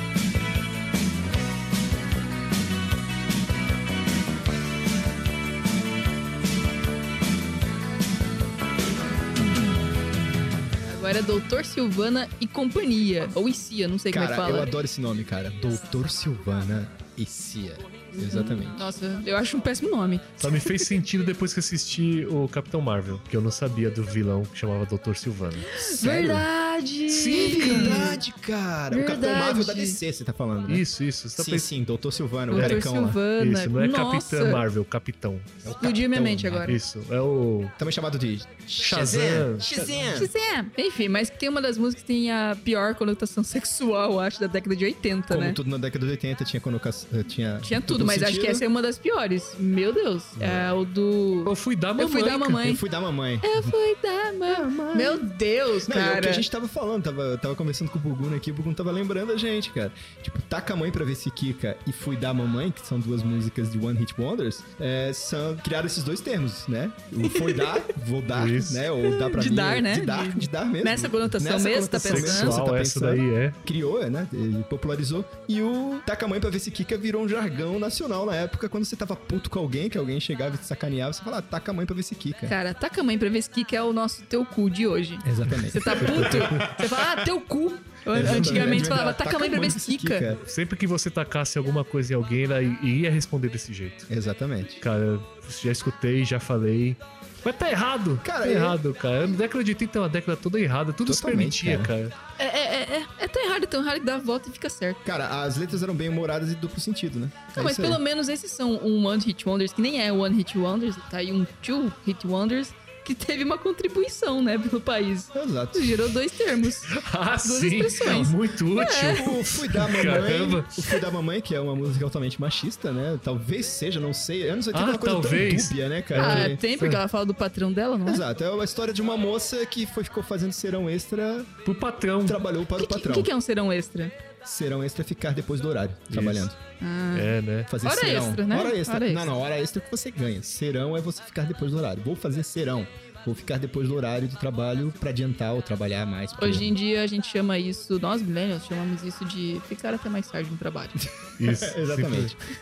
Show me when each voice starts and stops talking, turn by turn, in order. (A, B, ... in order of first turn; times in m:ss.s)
0:10.9-0:14.7 A
0:14.1-0:18.8 B
0:18.2-0:20.8 A
0:20.4-0:25.8 C
0:25.7-0:28.2 A
0:25.8-0:26.5 B
0:27.1-0:28.1 C
0:27.3-0:33.2 B
0:28.9-0:30.0 A
0:30.7-0:31.7 C
0:32.5-0:34.6 A
0:32.5-0:35.5 C
0:35.6-0:36.8 B
0:35.8-0:36.8 A
0:36.6-0:37.8 C
0:37.8-0:40.3 B
0:38.8-0:39.9 C
0:40.1-0:45.6 A
0:45.3-0:48.6 B
0:47.6-0:52.8 A
0:51.5-0:52.7 C
0:52.6-0:53.7 B
0:53.4-0:56.4 A
0:54.5-0:55.2 B
0:55.8-1:22.6 B
1:07.2-1:07.8 A
1:08.3-1:08.9 C
1:09.0-1:12.6 A
1:12.0-1:13.6 C
1:22.5-1:30.3 A
1:25.2-1:26.7 B
1:26.0-1:26.7 C
1:28.1-1:30.4 B
1:28.2-1:28.8 C
1:30.4-1:34.1 C
1:34.1-1:34.8 B
1:34.8-1:42.2 C
1:38.2-1:38.8 B
1:41.0-1:41.9 B
1:42.4-1:45.0 A
1:45.0-1:48.0 B
1:47.6-1:59.4 A
1:55.3-1:56.1 B
1:56.9-2:00.8 C
1:59.1-2:06.6 B
2:04.7-2:07.0 C
2:06.2-2:08.2 A
2:08.0-2:11.5 B
2:11.6-2:12.4 C
2:12.2-2:13.3 B
2:12.8-2:14.2 A
2:14.4-2:16.6 B
2:16.1-2:16.5 C
2:16.8-2:19.3 A
2:17.1-2:17.7 C
2:17.7-2:26.7 B
2:26.4-2:31.1 A
2:31.4-2:32.4 C
2:31.4-2:32.4 B